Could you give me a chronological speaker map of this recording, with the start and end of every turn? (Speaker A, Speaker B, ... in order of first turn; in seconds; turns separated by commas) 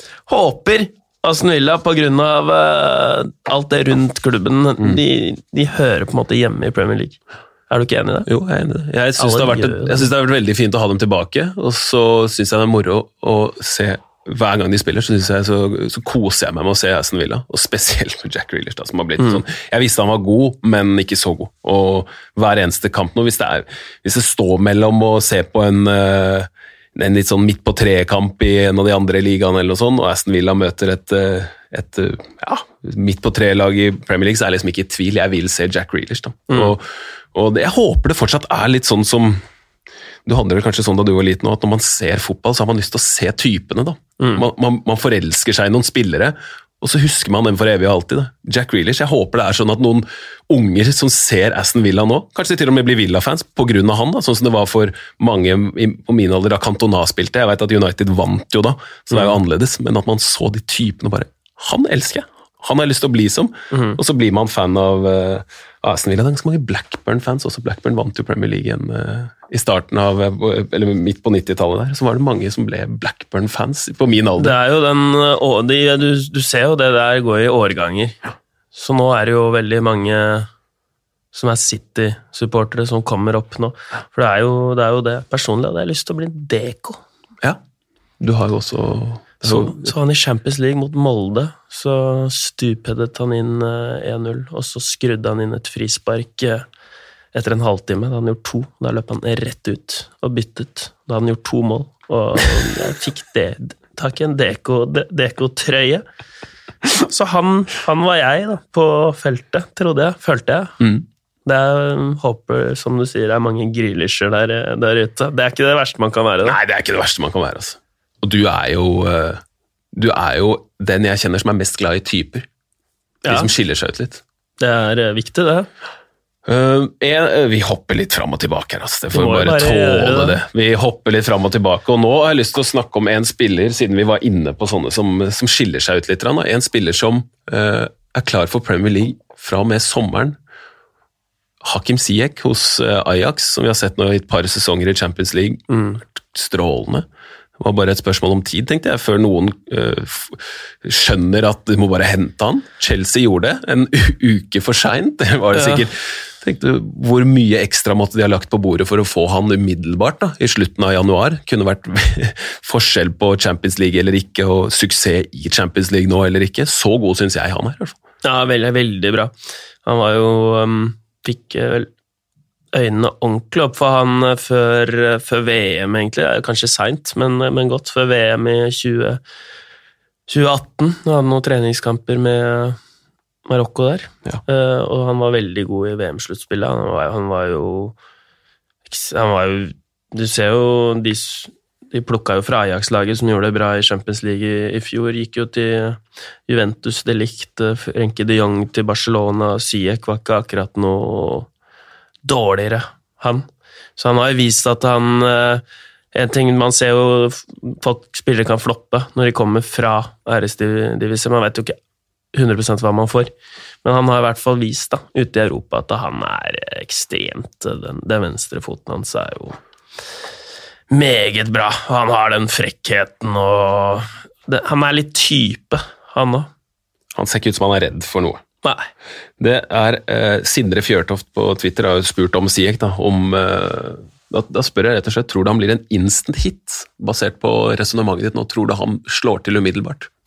Speaker A: 0.3-8.3, Speaker B: 8.2-39.4, Speaker A: 9.2-10.1, Speaker B: 40.2-74.5, Speaker A: 44.2-44.5, Speaker A: 63.7-64.0, Speaker A: 74.4-78.2, Speaker A: 78.7-80.5, Speaker A: 81.3-87.0, Speaker B: 88.2-89.9, Speaker A: 89.4-96.7, Speaker A: 97.3-106.0, Speaker A: 106.9-110.8, Speaker A: 111.5-116.6, Speaker B: 116.4-119.4, Speaker B: 119.9-122.5, Speaker A: 123.2-123.5, Speaker B: 123.3-124.2, Speaker A: 124.6-125.7, Speaker B: 126.5-140.4, Speaker A: 129.1-130.4, Speaker B: 141.6-147.1, Speaker A: 145.7-146.0, Speaker B: 147.6-168.0, Speaker A: 155.5-155.8, Speaker A: 168.2-171.9, Speaker A: 172.7-179.2, Speaker A: 180.3-182.8, Speaker A: 183.4-187.9, Speaker A: 188.9-201.5, Speaker A: 202.2-211.8, Speaker A: 212.3-213.3, Speaker A: 213.8-219.6, Speaker A: 220.9-226.5, Speaker B: 227.1-228.4, Speaker A: 228.6-228.9, Speaker B: 229.4-240.1